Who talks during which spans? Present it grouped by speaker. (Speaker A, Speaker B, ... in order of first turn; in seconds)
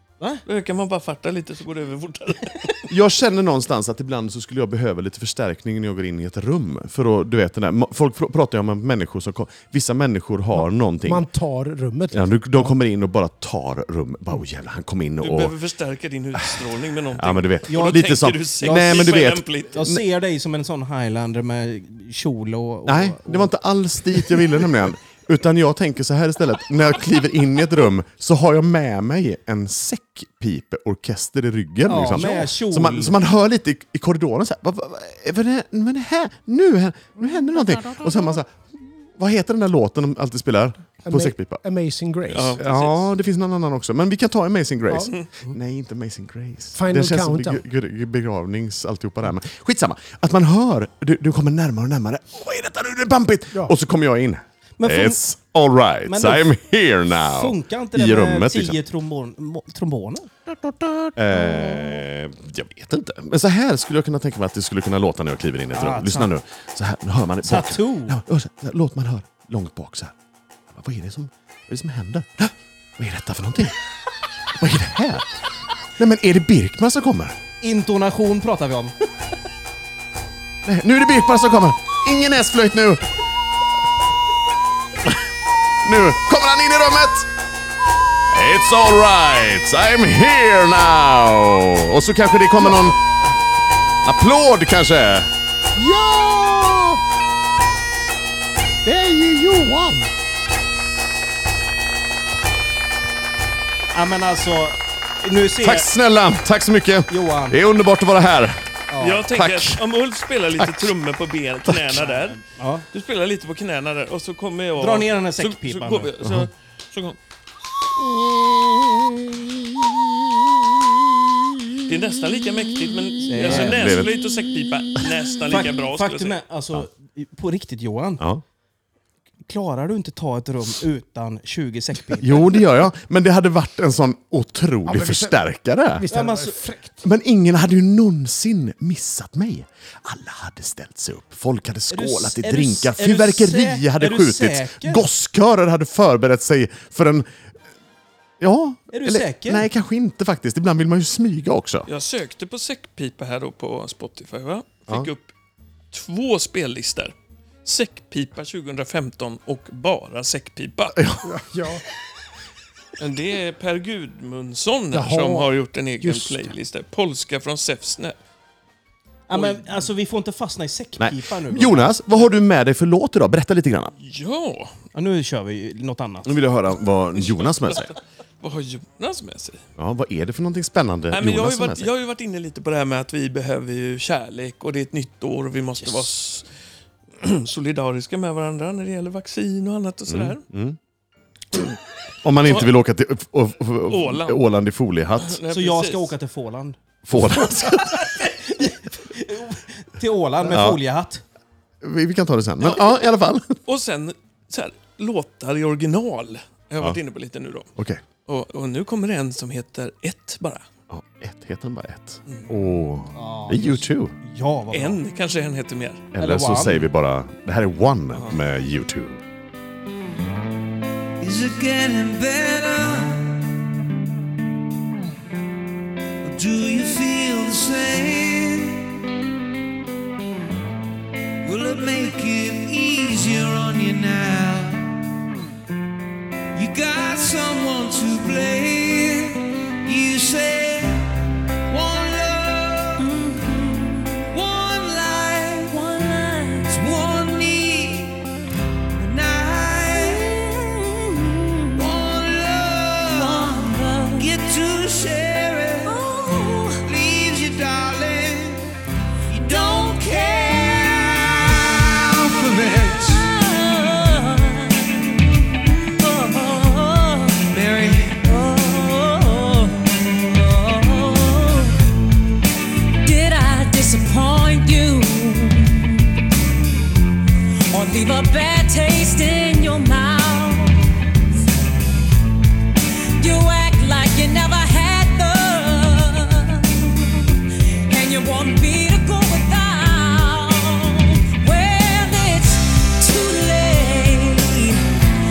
Speaker A: 0.5-2.9, 15.2-19.8, 42.3-43.1, 109.0-117.2, 121.9-126.4, 151.9-155.3, 155.9-157.1, 157.6-161.0, 163.0-168.2, 169.3-169.8, 174.0-174.8, 177.2-179.6, 181.1-186.5, 187.2-190.4, 192.4-192.7, 193.9-194.4, 195.2-196.1, 203.7-207.7, 208.3-210.6, 214.7-216.1
Speaker B: 2.9-11.3, 12.1-15.5, 16.4-16.6, 17.1-20.0, 22.9-41.6, 42.3-58.8, 61.1-70.1, 70.7-73.8, 74.5-75.3, 76.0-77.4, 80.6-83.0, 85.8-87.3, 88.3-93.0, 94.0-97.0, 98.8-100.1, 105.6-108.6, 109.3-109.8, 110.6-110.9, 111.7-112.0, 116.2-116.5, 123.4-124.2, 132.2-136.1, 137.0-147.3, 148.4-151.9, 160.9-161.3, 171.0-173.9, 176.2-177.9, 179.8-181.9, 190.1-190.8, 191.5-195.4, 197.1-198.1, 200.5-200.8, 201.8-203.6, 207.8-208.0, 210.9-214.1, 216.1-219.2
Speaker C: 10.6-12.7, 41.1-42.6, 46.7-47.6, 134.9-135.4, 135.9-137.0, 161.2-161.8, 164.9-166.6
Speaker D: 17.7-23.6, 31.9-33.2, 54.8-55.2, 56.1-56.5, 57.1-61.1, 65.7-66.3, 67.4-68.2, 77.6-78.9, 103.9-105.9, 107.1-107.6, 108.9-109.3, 112.0-112.8, 114.8-116.1, 123.3-123.7, 125.5-128.2, 129.5-132.6, 136.1-136.6, 141.9-145.0, 148.9-149.7, 169.3-171.8, 174.9-176.3, 195.5-201.2, 213.1-215.0, 216.2-216.9
Speaker E: 221.2-223.5, 226.2-228.9, 231.4-234.9, 236.6-241.1, 241.7-243.1, 244.3-245.8, 246.6-248.3, 248.9-250.4, 251.8-256.1, 256.9-263.3, 267.5-268.2
Speaker F: 243.0-244.2, 245.7-246.8, 251.2-251.9, 253.1-254.3, 255.8-256.8, 259.5-260.6, 263.1-265.1, 265.6-267.4, 268.2-271.8, 273.0-276.1, 277.7-280.9, 283.2-287.3, 287.9-294.9